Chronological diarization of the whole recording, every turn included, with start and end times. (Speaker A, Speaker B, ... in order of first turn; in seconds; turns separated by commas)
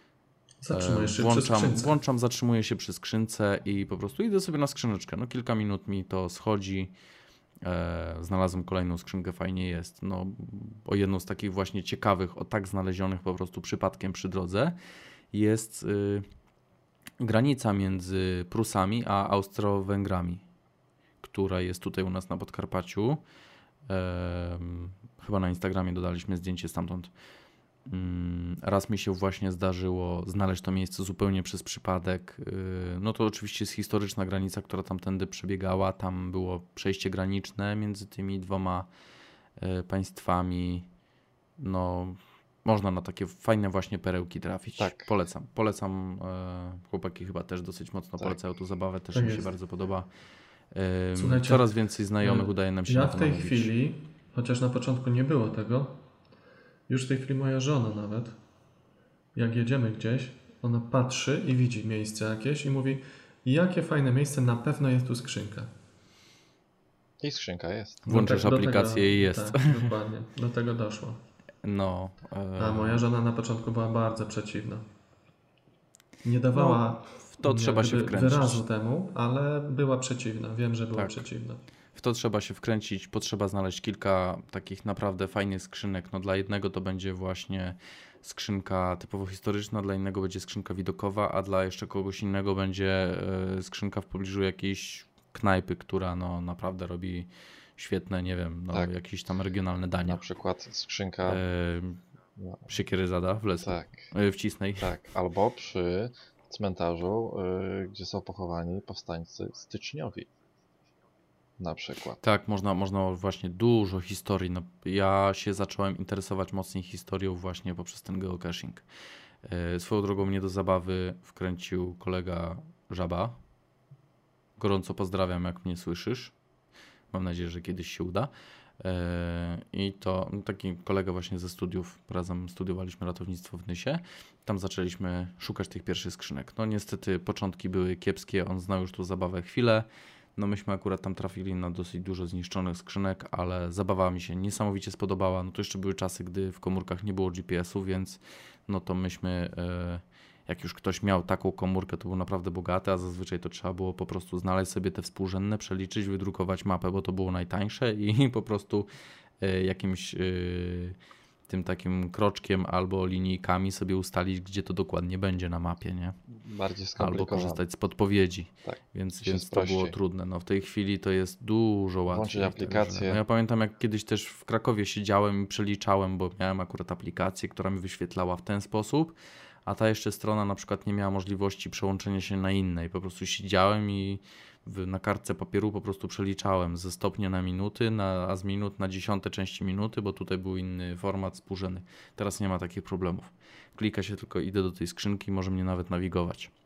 Speaker A: 0.6-1.9, Speaker B: 0.7-6.9, Speaker B: 7.6-14.8, Speaker B: 15.3-16.2, Speaker B: 17.2-20.4, Speaker B: 21.2-23.2, Speaker B: 23.9-27.1, Speaker B: 27.9-38.9, Speaker B: 39.6-40.9, Speaker B: 41.6-50.1, Speaker C: 44.8-45.1, Speaker A: 49.1-49.5, Speaker B: 50.7-53.7, Speaker A: 51.1-56.0, Speaker A: 56.9-58.4, Speaker A: 59.3-65.7, Speaker C: 67.2-68.0, Speaker B: 68.0-69.9, Speaker A: 68.0-71.2, Speaker B: 71.6-73.0, Speaker A: 72.6-74.8, Speaker A: 76.2-81.6, Speaker B: 76.5-78.6, Speaker B: 80.9-81.3, Speaker B: 81.9-100.2, Speaker C: 100.1-101.4, Speaker B: 101.2-102.0, Speaker C: 102.4-102.7, Speaker B: 102.7-104.9, Speaker C: 103.6-104.1, Speaker C: 104.8-110.3, Speaker C: 111.6-112.2, Speaker B: 112.2-118.8, Speaker B: 119.4-123.4, Speaker B: 124.6-126.3, Speaker B: 127.1-158.9, Speaker B: 159.4-160.9, Speaker B: 161.5-166.2, Speaker C: 166.3-167.6, Speaker B: 167.0-196.5, Speaker C: 168.6-169.9, Speaker C: 172.1-173.2